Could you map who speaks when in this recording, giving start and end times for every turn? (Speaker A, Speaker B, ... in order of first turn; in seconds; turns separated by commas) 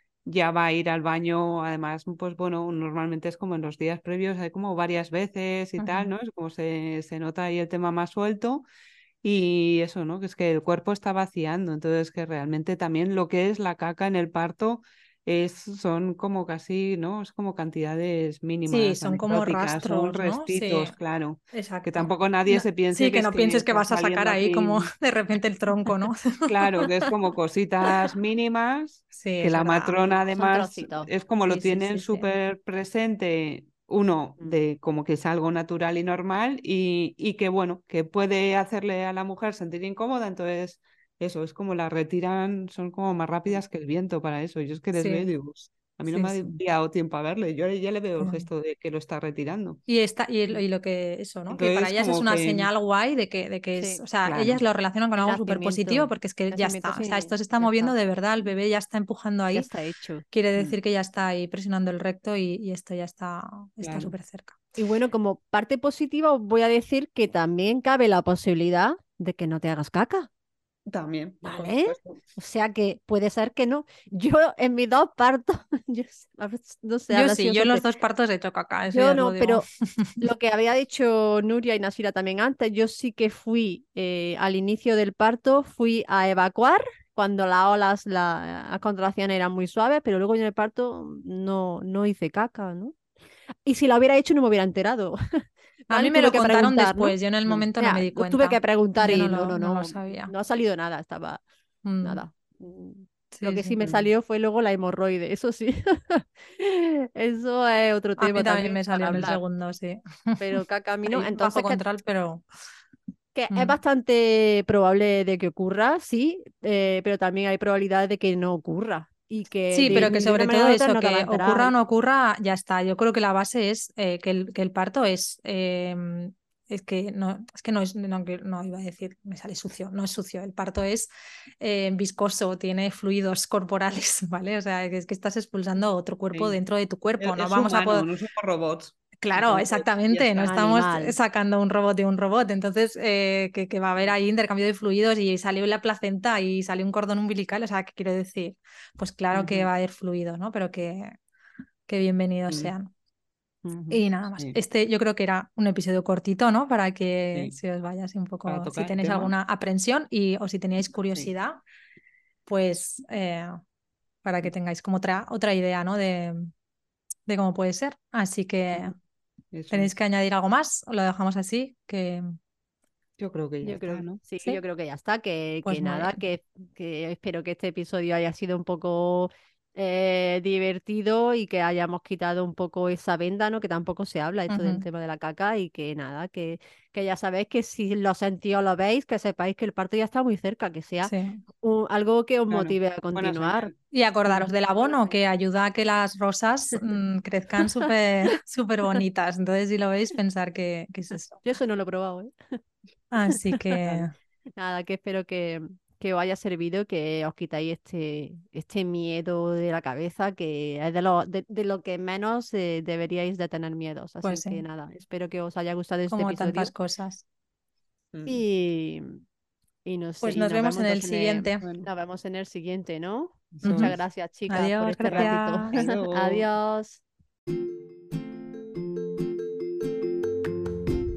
Speaker A: 0.2-8.7, Speaker B: 5.8-6.1, Speaker A: 9.2-24.9, Speaker B: 18.7-20.9, Speaker B: 21.5-27.1, Speaker A: 26.5-49.8, Speaker B: 29.1-30.1, Speaker C: 30.3-31.1, Speaker B: 31.4-32.3, Speaker B: 44.9-45.3, Speaker B: 46.0-46.5, Speaker B: 48.2-48.5, Speaker B: 49.9-59.7, Speaker A: 51.5-52.7, Speaker C: 53.7-54.0, Speaker A: 54.2-54.6, Speaker C: 55.2-58.0, Speaker C: 59.5-60.2, Speaker B: 60.3-64.6, Speaker A: 63.8-64.1, Speaker C: 64.8-70.3, Speaker A: 70.9-72.2, Speaker C: 71.4-77.8, Speaker B: 77.1-80.2, Speaker C: 78.9-79.7, Speaker C: 80.2-92.9, Speaker C: 93.6-95.2, Speaker B: 95.9-100.3, Speaker C: 95.9-101.4, Speaker B: 101.8-102.2, Speaker C: 102.0-109.4, Speaker B: 103.3-103.8, Speaker A: 103.8-104.1, Speaker B: 108.2-112.4, Speaker C: 110.4-111.8, Speaker C: 113.3-121.7, Speaker B: 113.5-113.8, Speaker B: 119.7-138.1, Speaker A: 119.8-120.2, Speaker A: 136.3-136.6, Speaker A: 137.2-140.6, Speaker B: 139.2-151.1, Speaker C: 140.4-141.2, Speaker A: 149.3-149.7, Speaker B: 151.9-152.9, Speaker A: 152.5-152.7, Speaker C: 153.6-154.0, Speaker B: 153.9-161.6, Speaker A: 158.4-159.3, Speaker A: 161.0-161.3, Speaker B: 162.4-163.6, Speaker B: 164.2-166.5, Speaker B: 167.3-168.9, Speaker A: 169.5-169.9, Speaker B: 169.7-172.2, Speaker A: 173.2-174.2, Speaker C: 173.6-193.7, Speaker B: 175.6-176.2, Speaker B: 184.5-184.8, Speaker B: 191.0-191.4, Speaker A: 192.5-193.8, Speaker B: 193.9-201.4, Speaker C: 194.3-195.2, Speaker C: 201.4-202.6, Speaker B: 203.1-204.1, Speaker C: 204.6-216.7, Speaker B: 214.2-214.6, Speaker B: 216.1-217.2, Speaker A: 218.1-218.4, Speaker C: 218.2-219.2, Speaker C: 219.8-227.0, Speaker B: 220.2-221.7, Speaker A: 221.6-221.9, Speaker A: 223.5-224.0, Speaker B: 223.6-223.9, Speaker B: 224.5-225.8, Speaker A: 225.0-226.4